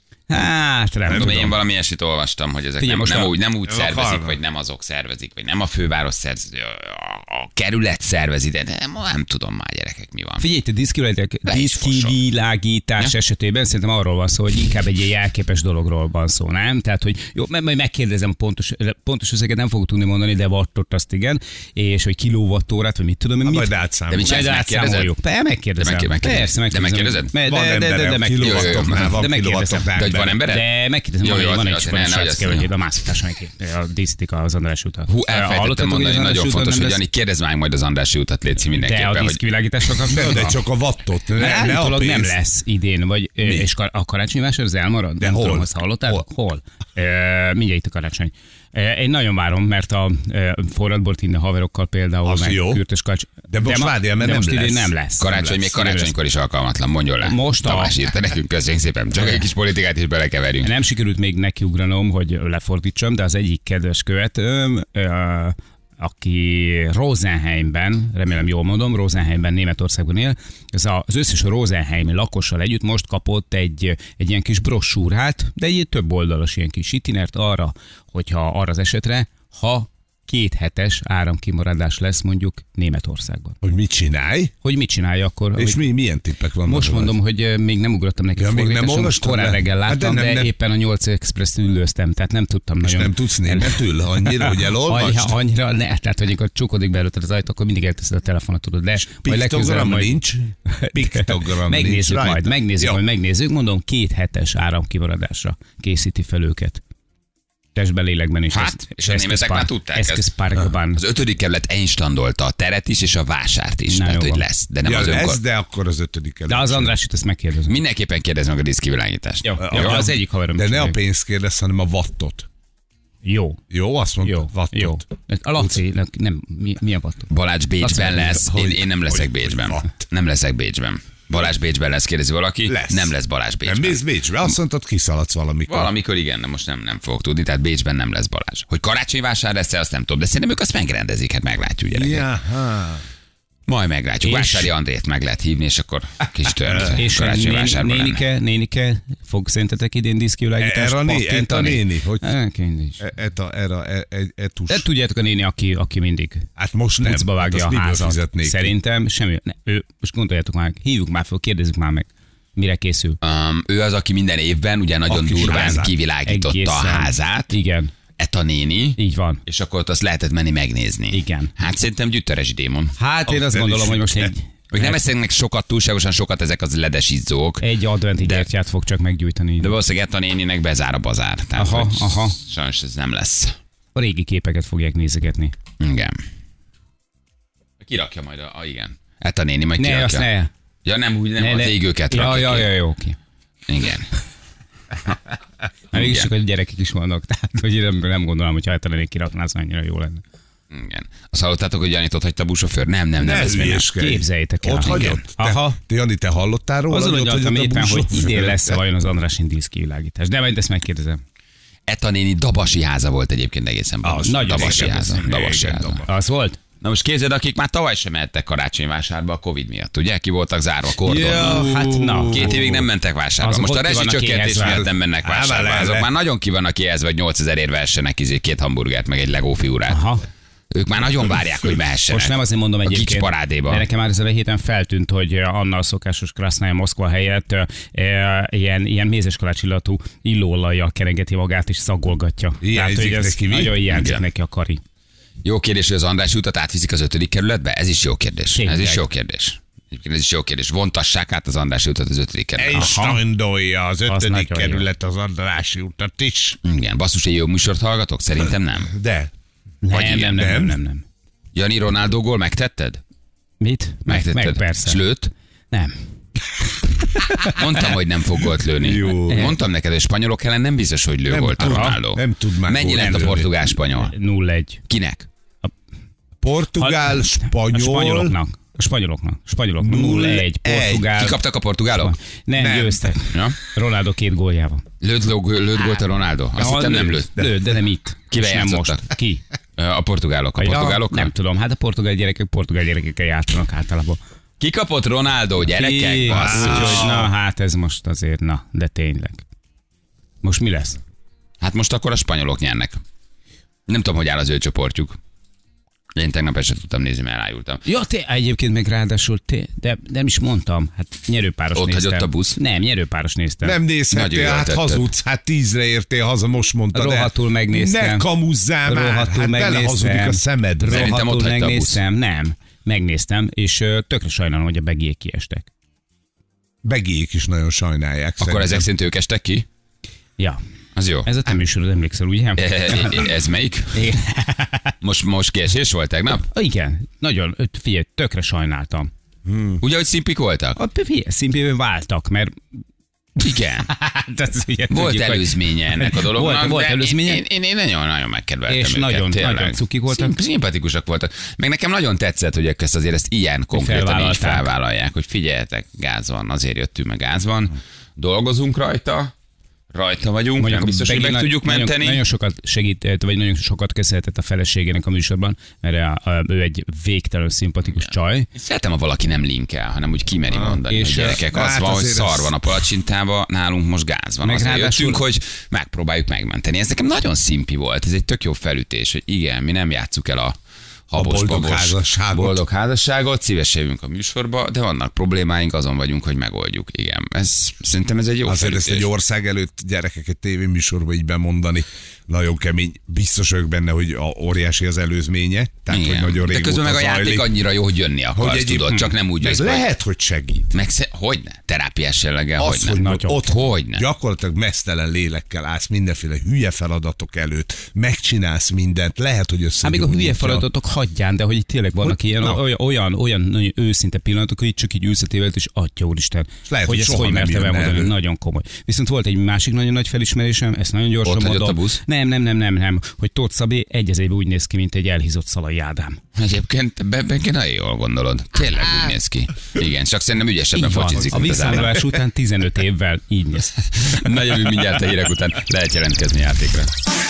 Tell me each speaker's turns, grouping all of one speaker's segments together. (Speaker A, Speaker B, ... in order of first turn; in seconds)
Speaker A: 0.3-1.5, 2.8-3.3, 10.4-29.9, 30.5-37.0, 38.8-40.6, 41.4-56.1, 57.2-58.0, 59.1-59.4, 60.6-83.6, 84.6-85.8, 86.6-106.8, 107.8-111.0, 113.9-114.4, 116.5-117.8, 119.4-121.0, 123.2-123.6, 124.2-127.3, 127.8-128.3, 144.2-144.7, 147.0-153.1, 154.7-156.5, 157.0-163.2, 165.4-167.9, 169.0-169.4, 171.1-171.5, 173.0-175.0, 177.6-179.7, 181.6-182.4, 183.9-185.5, 189.8-190.5, 191.4-193.2, 195.9-200.2, 204.0-205.8, 206.9-211.2, 214.2-215.2, 216.1-216.6, 221.2-222.6, 223.4-224.8, 229.9-230.2, 232.1-244.8, 248.5-249.0, 252.8-253.2, 254.1-254.9, 259.8-261.0, 263.6-265.0, 267.1-267.6, 271.6-272.0, 272.9-274.8, 276.8-281.4, 281.9-284.8, 286.6-289.4, 290.6-294.2, 295.7-299.4, 300.4-301.0, 307.9-313.8, 316.9-318.2, 318.9-325.7, 331.2-333.2, 333.9-334.9, 336.5-339.1, 340.8-342.5, 343.9-347.4, 348.7-350.4, 353.7-354.7, 360.6-368.5, 370.9-371.4, 374.4-375.2, 402.9-403.5, 409.8-426.2, 430.8-433.8
Speaker B: 1.1-1.5, 3.7-4.4, 23.4-24.4, 27.4-30.4, 40.1-42.4, 43.4-43.7, 45.2-46.2, 52.2-52.8, 53.5-55.4, 83.6-84.5, 85.5-87.2, 88.4-90.5, 92.8-95.4, 99.0-103.0, 114.8-117.0, 119.6-122.5, 123.7-125.0, 127.9-130.0, 132.7-133.1, 133.6-135.9, 141.9-143.0, 146.5-147.0, 150.6-152.3, 153.0-154.9, 156.6-158.7, 165.1-165.9, 173.3-174.3, 203.2-208.8, 214.0-216.1, 221.0-222.9, 224.6-226.1, 242.6-243.8, 252.6-256.6, 258.9-259.3, 260.3-260.8, 268.8-269.5, 271.3-273.5, 276.4-278.4, 279.8-281.3, 282.6-283.1, 296.3-297.3, 313.6-321.2, 326.8-328.9, 339.5-339.8, 370.5-372.5, 381.1-382.6, 388.5-397.5, 398.3-400.7, 402.6-410.7, 412.0-412.6, 416.7-418.1, 431.3-432.0
Speaker C: 1.1-10.4, 11.5-12.2, 24.1-25.1, 25.8-27.3, 28.4-29.2, 30.0-30.7, 31.2-32.7, 35.1-39.4, 55.2-60.7, 108.5-110.3, 110.9-115.4, 117.7-120.0, 127.3-134.0, 135.7-142.2, 143.7-148.2, 163.2-167.5, 168.2-172.9, 174.7-177.6, 178.2-178.5, 179.6-183.6, 185.8-186.2, 187.8-190.3, 190.8-192.7, 193.7-194.1, 195.9-196.3, 200.7-203.9, 204.9-205.1, 211.9-216.0, 216.8-221.6, 222.3-230.0, 230.7-233.9, 243.9-244.2, 245.4-252.9, 256.6-258.9, 259.9-260.4, 261.5-263.0, 264.1-265.3, 267.5-274.1, 274.9-275.3, 281.1-282.1, 285.0-287.3, 288.3-289.0, 289.8-291.3, 294.6-297.1, 301.6-303.0, 303.9-305.2, 306.1-307.8, 311.8-312.6, 314.1-315.1, 320.9-322.0, 328.4-329.7, 331.0-331.3, 332.6-334.0, 335.0-336.5, 339.8-340.8, 343.4-343.9, 344.9-359.3, 359.9-362.2, 367.9-380.6, 381.1-389.1, 395.9-399.9, 400.7-404.0, 421.2-422.0, 426.4-432.0, 434.0-436.9